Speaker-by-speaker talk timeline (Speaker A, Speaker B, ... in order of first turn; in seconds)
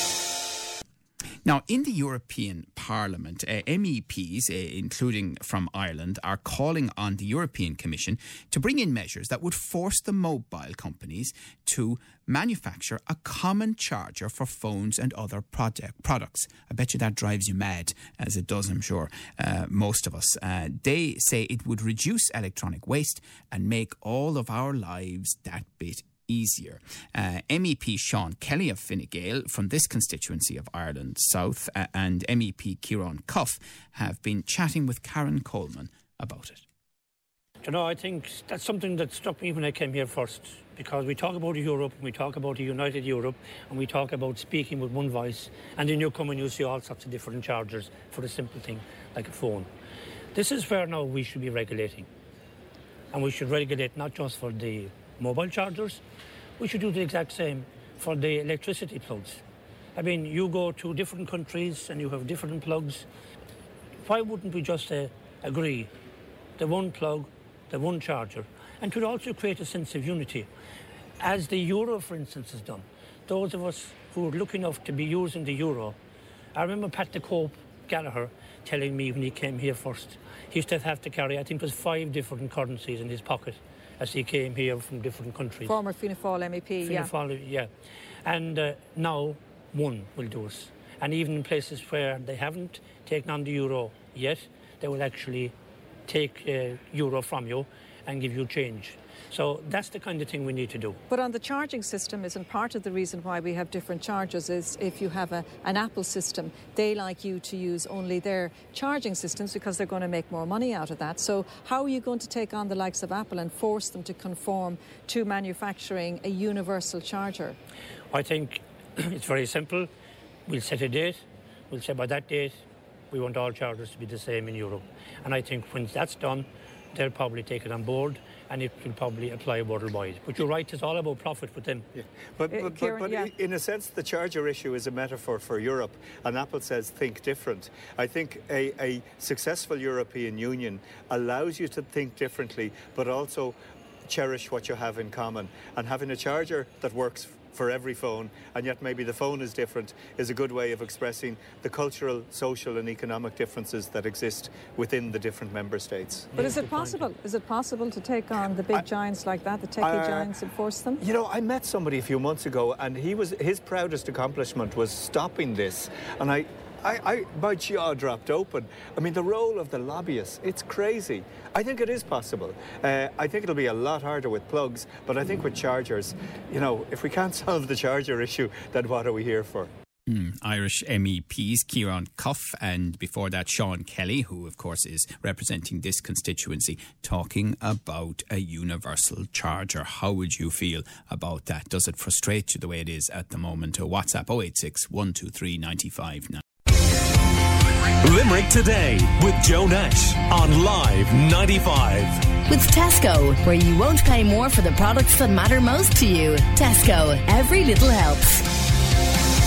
Speaker A: 1.4-36.6, 180.1-196.4
Speaker B: 37.6-49.7, 50.3-52.1, 53.1-56.0, 56.6-59.4, 59.9-63.0, 64.0-65.9, 66.6-70.5, 71.2-76.0, 76.5-85.7, 86.8-87.7, 88.2-95.5, 96.1-101.0, 118.1-119.9, 120.5-122.6, 123.1-131.9, 156.3-157.1
Speaker C: 85.6-87.1, 101.1-117.6, 132.5-133.3, 156.3-161.0
Speaker D: 131.9-156.3, 159.8-160.3, 161.0-179.7
Speaker E: 198.0-202.2
Speaker F: 202.5-208.4